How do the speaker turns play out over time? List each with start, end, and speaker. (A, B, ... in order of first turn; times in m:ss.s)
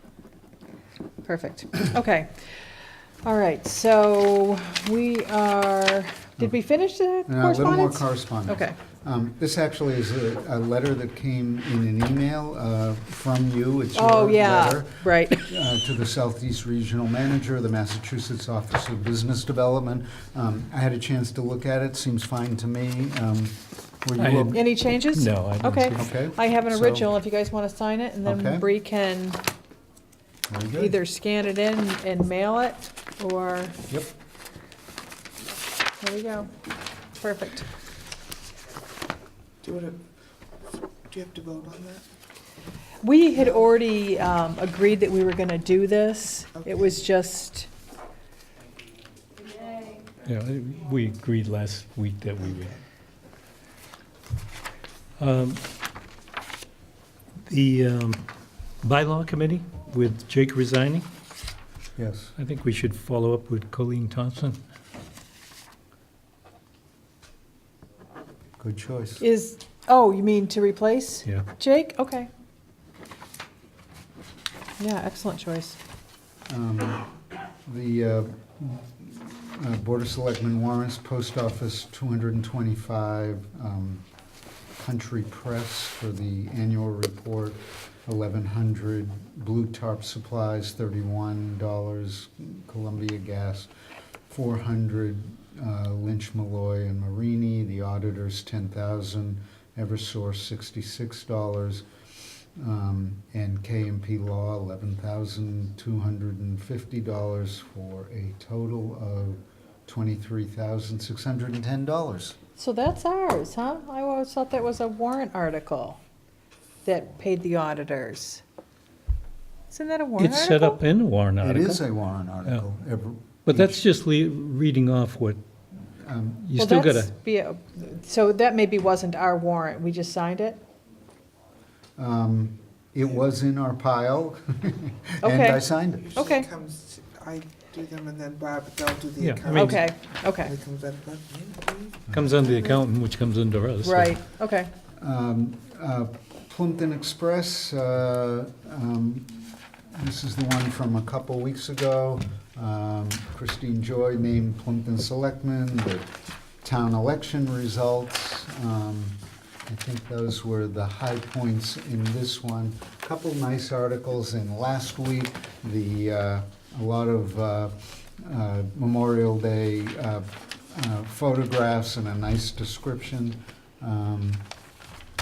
0:01.2-0:08.8 A
0:07.2-0:24.6 B
0:13.9-0:15.5 A
0:24.2-0:26.0 C
0:24.3-0:29.4 A
0:25.9-0:27.1 B
0:28.2-0:28.6 B
0:30.5-0:31.0 B
0:30.7-0:33.8 A
0:36.0-0:36.5 A
0:37.2-0:37.7 A
0:39.6-0:40.0 D
0:41.0-0:42.0 D
0:43.0-0:47.7 A
0:46.5-0:47.0 D
0:50.2-0:52.8 C
0:52.4-0:52.8 D
0:55.2-0:55.6 C
0:57.4-0:58.3 C
0:58.8-1:01.1 C
1:02.0-1:02.3 B
1:02.4-1:04.6 C
1:08.6-1:09.2 B
1:09.2-1:12.3 A
1:14.8-1:15.8 A
1:16.5-1:17.1 B
1:17.6-1:24.0 B
1:24.8-1:33.7 B
1:34.3-1:41.8 B
1:42.6-1:52.4 B
1:52.6-1:56.0 A
1:56.8-1:58.4 A
1:59.7-2:00.8 A
2:00.2-2:01.8 C
2:01.4-2:03.8 B
2:03.4-2:05.4 C
2:05.9-2:06.5 B
2:06.4-2:07.1 C
2:06.6-2:10.6 A
2:12.0-2:16.2 B
2:15.2-2:16.5 A
2:16.0-2:22.8 D
2:19.2-2:19.9 C
2:19.5-2:20.5 A
2:22.1-2:24.1 C
2:23.8-2:24.7 A
2:25.0-2:36.1 B
2:36.6-2:54.4 B